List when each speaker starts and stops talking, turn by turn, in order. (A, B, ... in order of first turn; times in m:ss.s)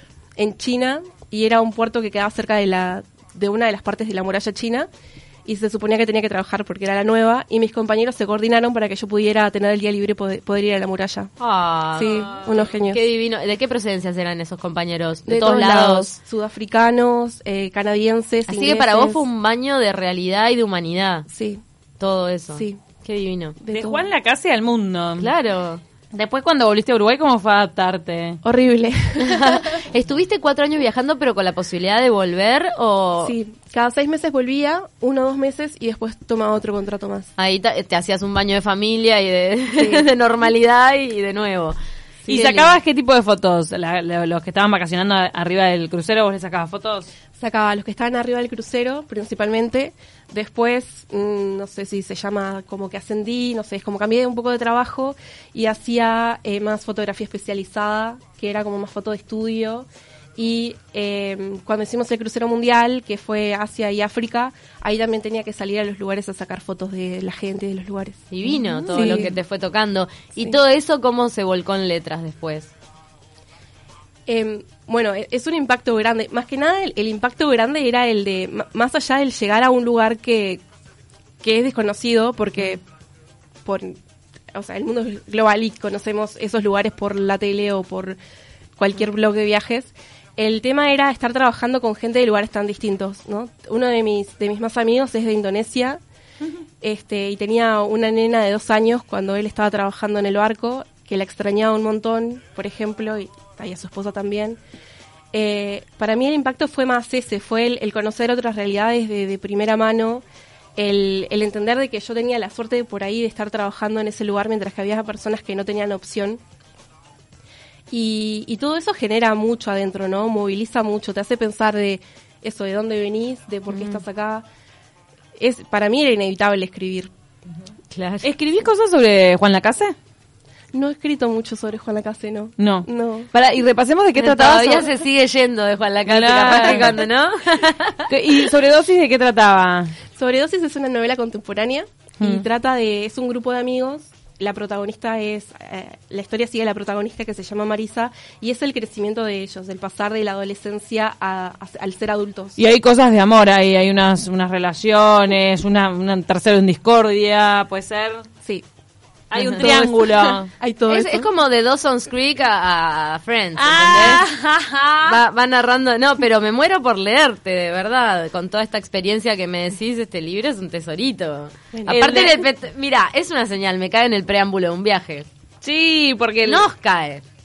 0:00.4-0:04.9 A
0:05.4-0:11.3 A
0:11.4-0:16.2 B
0:12.0-0:13.0 A
0:15.3-0:19.2 A
0:18.5-0:21.3 B
0:21.3-0:21.6 A
0:22.0-0:23.6 B
0:22.6-0:22.8 A
0:23.6-0:24.1 A
0:23.7-0:25.3 C
0:25.2-0:25.8 B
0:26.1-0:28.4 C
0:28.4-0:29.8 A
0:29.2-0:33.4 B
0:33.2-0:37.3 A
0:37.4-0:41.8 B
0:39.8-0:40.1 A
0:42.2-0:42.8 A
0:42.3-0:47.1 C
0:47.4-1:08.3 A
1:08.3-1:12.7 B
1:08.9-1:09.2 C
1:08.9-1:09.3 A
1:14.3-1:20.6 A
1:21.4-1:22.8 A
1:23.6-1:24.0 A
1:24.5-1:28.2 A
1:28.8-1:36.0 A
1:36.8-1:44.6 A
1:45.3-1:50.2 A
1:50.8-1:56.4 A
1:57.9-2:04.5 A
2:03.7-2:04.0 C
2:05.4-2:07.1 A
2:07.9-2:08.4 B
2:08.2-2:09.9 C
2:10.7-2:13.3 A
2:12.6-2:14.9 C
2:14.2-2:18.1 B
2:16.1-2:17.0 C
2:16.5-2:16.9 A
2:18.1-2:20.0 C
2:20.2-2:32.6 A
2:22.2-2:22.4 C
2:32.6-2:38.2 C
2:39.3-2:40.5 C
2:39.4-2:39.6 B
2:39.5-2:41.3 A
2:40.9-2:44.2 B
2:43.6-2:45.2 C
2:45.0-2:55.3 B
2:51.7-2:52.3 A
2:51.9-2:52.4 C
2:55.6-2:56.6 C
2:56.4-2:57.2 B